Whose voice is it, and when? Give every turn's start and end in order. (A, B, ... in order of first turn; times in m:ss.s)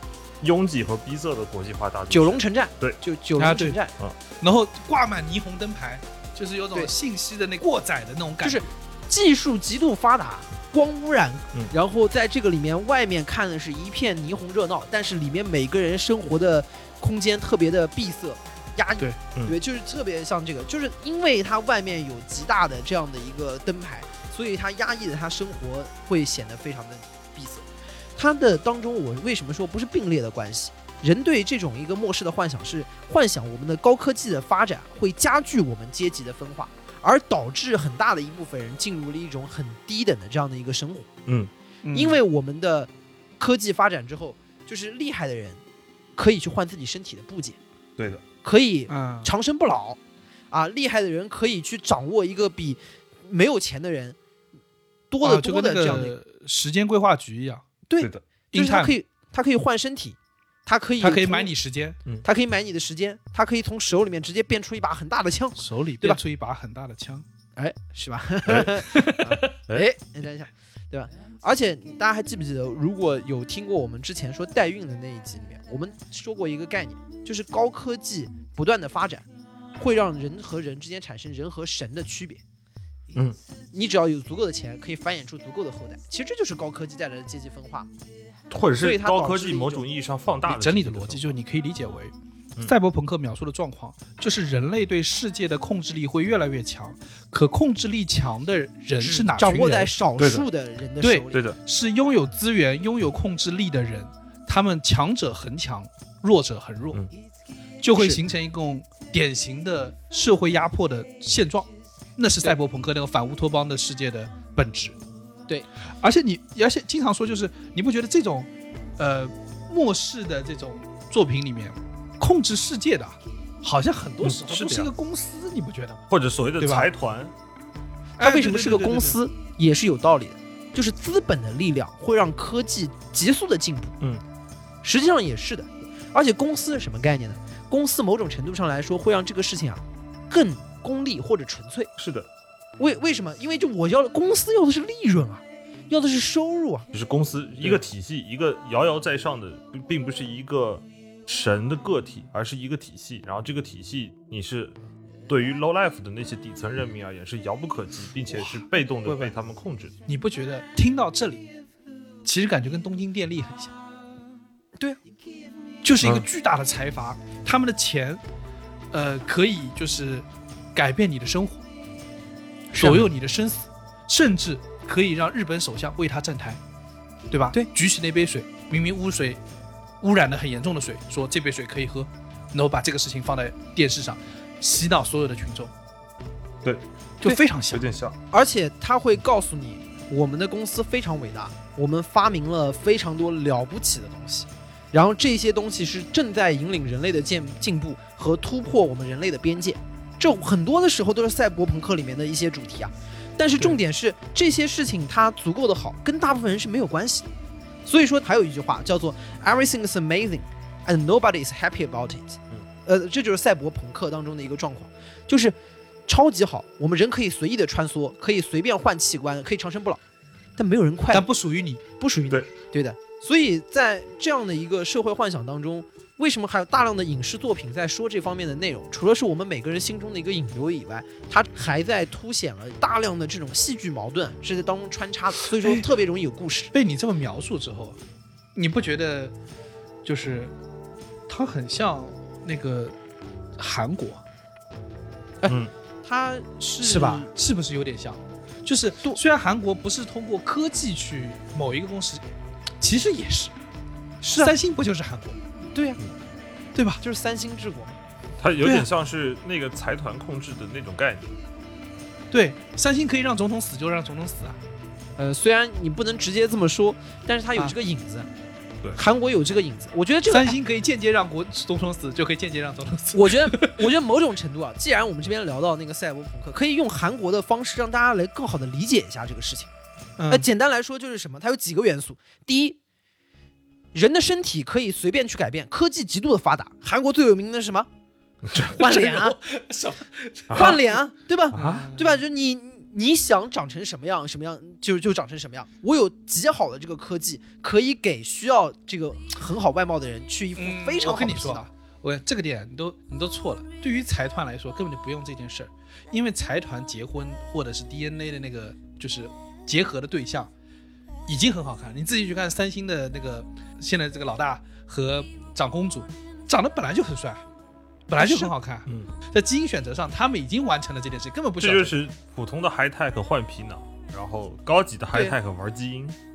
0:00.4-0:03.0 A
0:02.1-0:03.9 B
0:03.4-0:03.8 C
0:04.4-0:08.6 C
0:08.4-0:41.1 B
0:41.8-0:42.2 C
0:41.9-0:45.6 B
0:46.2-0:47.6 B
0:48.0-0:48.2 A
0:48.4-0:50.0 B
0:48.9-0:49.3 C
0:50.5-0:54.2 B
0:55.1-0:56.2 B
0:55.2-0:57.6 C
0:57.9-1:01.5 B
0:58.5-0:59.0 C
1:01.0-1:02.0 C
1:02.2-1:06.2 B
1:05.6-1:07.2 C
1:07.6-1:22.4 B
1:08.5-1:08.8 A
1:08.9-1:09.4 C
1:23.7-1:27.9 B
1:28.5-1:31.3 A
1:28.8-1:29.9 B
1:30.5-1:32.1 C
1:32.6-1:39.9 C
1:39.0-1:41.4 B
1:40.2-1:40.5 A
1:41.0-1:47.0 C
1:41.3-1:41.6 A
1:47.8-1:55.0 C
1:48.0-1:48.2 B
1:56.0-2:06.0 C
2:04.2-2:04.9 A
2:06.1-2:07.3 A
2:06.6-2:06.9 C
2:08.2-2:09.2 C
2:08.2-2:14.0 B
2:14.8-2:21.9 B
2:22.0-2:22.3 A
2:22.8-2:26.9 B
2:26.9-2:34.7 A
2:35.3-2:40.0 A
2:40.1-2:41.5 C
2:42.2-2:43.7 C
2:45.8-2:48.2 C
2:48.9-2:51.6 C
2:52.7-2:53.0 B
2:52.8-2:56.6 C
2:57.3-2:59.4 C
3:00.0-3:05.7 C
3:07.2-3:07.9 C
3:07.7-3:08.2 A
3:08.3-3:27.3 B
3:27.8-3:35.6 B
3:36.1-3:40.0 B
3:40.6-3:41.3 B
3:41.1-3:41.8 C
3:42.0-3:56.7 B
3:56.7-3:58.0 C
3:58.6-3:59.4 C
4:00.0-4:00.5 C
4:01.3-4:03.0 C
4:03.6-4:04.2 C
4:05.4-4:07.3 B
4:05.5-4:05.7 A
4:06.8-4:12.2 C
4:12.8-4:13.5 C
4:14.2-4:15.4 C
4:15.7-4:16.0 B
4:16.8-4:17.0 C
4:17.0-4:18.0 B
4:18.4-4:21.4 A
4:22.3-4:24.6 C
4:25.2-4:28.3 B
4:29.0-4:30.6 B
4:30.3-4:33.9 C
4:33.1-4:39.7 B
4:40.2-4:40.5 C
4:40.3-4:42.8 B
4:43.9-4:47.9 B
4:48.6-4:49.4 B
4:48.6-4:50.9 C
4:50.5-4:50.8 A
4:50.5-5:01.7 B
4:51.5-4:51.8 A
4:51.5-4:52.2 C
5:00.6-5:10.5 C
5:11.3-5:17.4 C
5:18.1-5:22.0 C
5:18.2-5:18.5 B
5:21.6-5:26.2 A